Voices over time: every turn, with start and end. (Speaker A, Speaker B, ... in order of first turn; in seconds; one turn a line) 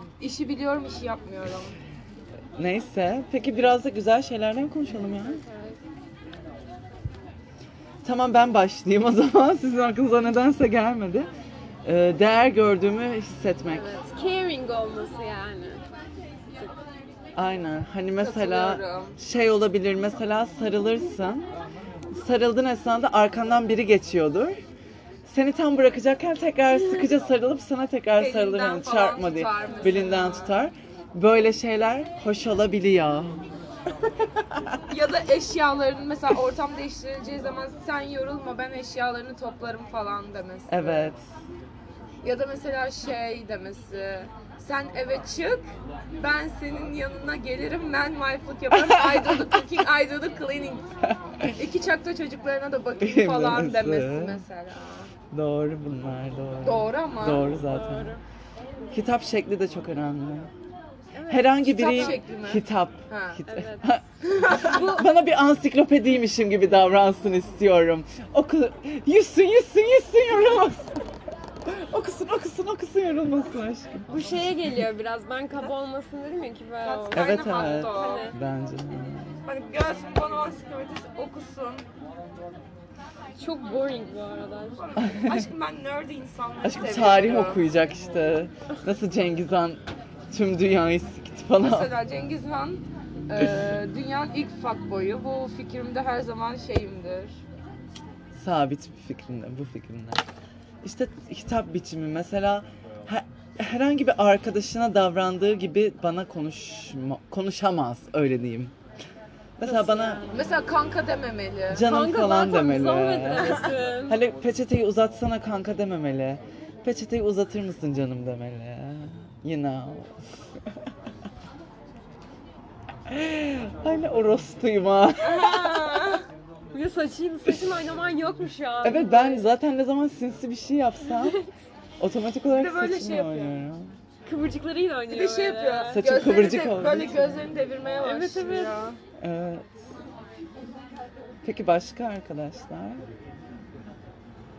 Speaker A: 0.2-1.8
Speaker B: 2.6-5.5
Speaker C: 5.0-5.8
Speaker B: 8.0-11.3
Speaker B: 11.8-14.0
Speaker C: 13.7-15.8
Speaker B: 17.4-21.5
Speaker A: 18.2-19.2
Speaker B: 22.1-24.6
Speaker B: 25.3-33.4
Speaker A: 28.2-30.6
Speaker A: 34.9-41.1
Speaker B: 40.7-41.2
Speaker A: 42.2-50.9
Speaker B: 51.0-51.5
Speaker A: 51.4-55.1
Speaker B: 53.0-54.4
Speaker B: 55.3-58.1
Speaker A: 56.6-57.6
Speaker C: 57.5-58.2
Speaker B: 58.9-60.5
Speaker C: 61.1-62.2
Speaker B: 61.3-71.0
Speaker A: 61.7-63.4
Speaker C: 63.5-63.9
Speaker A: 64.2-65.0
Speaker B: 71.7-74.5
Speaker C: 74.1-78.4
Speaker A: 76.8-78.3
Speaker B: 77.1-79.4
Speaker A: 79.5-81.9
Speaker C: 83.4-84.8
Speaker A: 84.8-87.7
Speaker B: 85.0-85.5
Speaker B: 86.6-92.0
Speaker A: 91.6-97.4
Speaker B: 98.3-100.2
Speaker B: 100.8-108.7
Speaker B: 109.6-110.2
Speaker C: 109.6-110.7
Speaker A: 110.3-111.9
Speaker B: 111.7-120.2
Speaker C: 111.8-114.2
Speaker B: 123.1-125.8
Speaker A: 125.2-126.2
Speaker C: 125.4-125.9
Speaker C: 126.7-129.5
Speaker B: 128.8-131.4
Speaker C: 131.1-131.4
Speaker B: 132.0-133.9
Speaker A: 132.5-133.6
Speaker C: 134.3-136.1
Speaker A: 135.1-139.0
Speaker B: 135.9-137.3
Speaker C: 138.0-138.9
Speaker B: 139.2-139.7
Speaker B: 141.4-143.1